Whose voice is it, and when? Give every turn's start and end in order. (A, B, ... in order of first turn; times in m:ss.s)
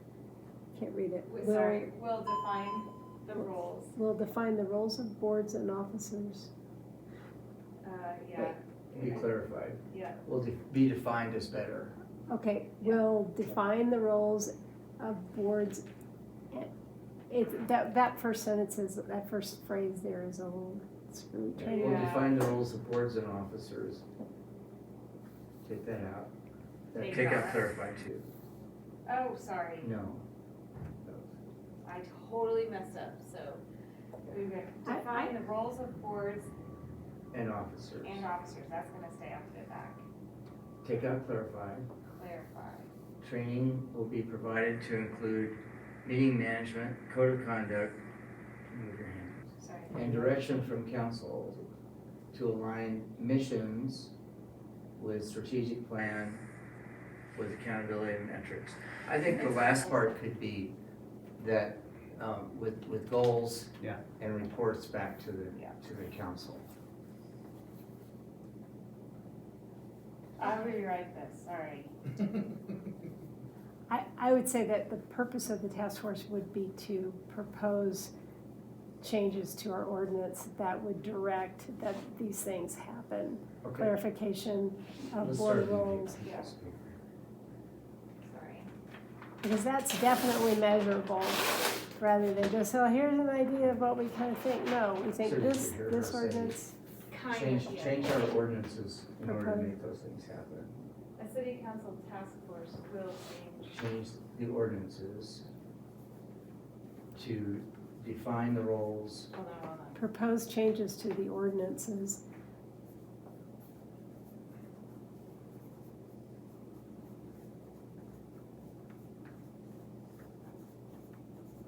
0:00.7-0:01.9 A
0:01.3-0:03.9 B
0:03.4-0:06.5 A
0:07.8-0:09.3 B
0:08.9-0:12.0 C
0:09.9-0:10.2 B
0:12.3-0:15.9 A
0:17.3-0:22.0 A
0:21.6-0:24.0 C
0:21.6-0:22.3 B
0:25.6-0:26.3 C
0:26.9-0:28.3 C
0:27.0-0:27.7 B
0:29.1-0:29.9 B
0:29.8-0:30.3 C
0:31.0-0:31.4 C
0:31.8-0:33.6 B
0:34.3-0:36.5 B
0:34.9-0:35.3 A
0:37.3-0:38.2 C
0:38.0-0:40.0 B
0:40.8-0:41.9 C
0:42.2-0:42.9 B
0:43.2-0:48.0 C
0:48.7-0:51.7 C
0:49.6-0:50.2 B
0:52.3-0:54.1 C
0:55.0-0:56.4 C
0:57.4-1:00.8 C
0:59.3-1:00.1 B
1:01.4-1:06.6 C
1:10.4-1:11.9 B
1:13.9-1:18.1 A
1:19.0-1:26.2 A
1:23.6-1:23.9 C
1:25.1-1:27.0 C
1:26.2-1:26.5 B
1:28.2-1:28.7 B
1:29.4-1:36.7 A
1:35.2-1:36.6 C
1:37.1-1:38.2 B
1:37.3-1:40.8 C
1:39.2-1:39.7 A
1:41.2-1:43.8 B
1:43.7-1:45.5 C
1:47.2-1:49.3 C
1:49.3-1:50.0 B
1:50.0-1:52.2 A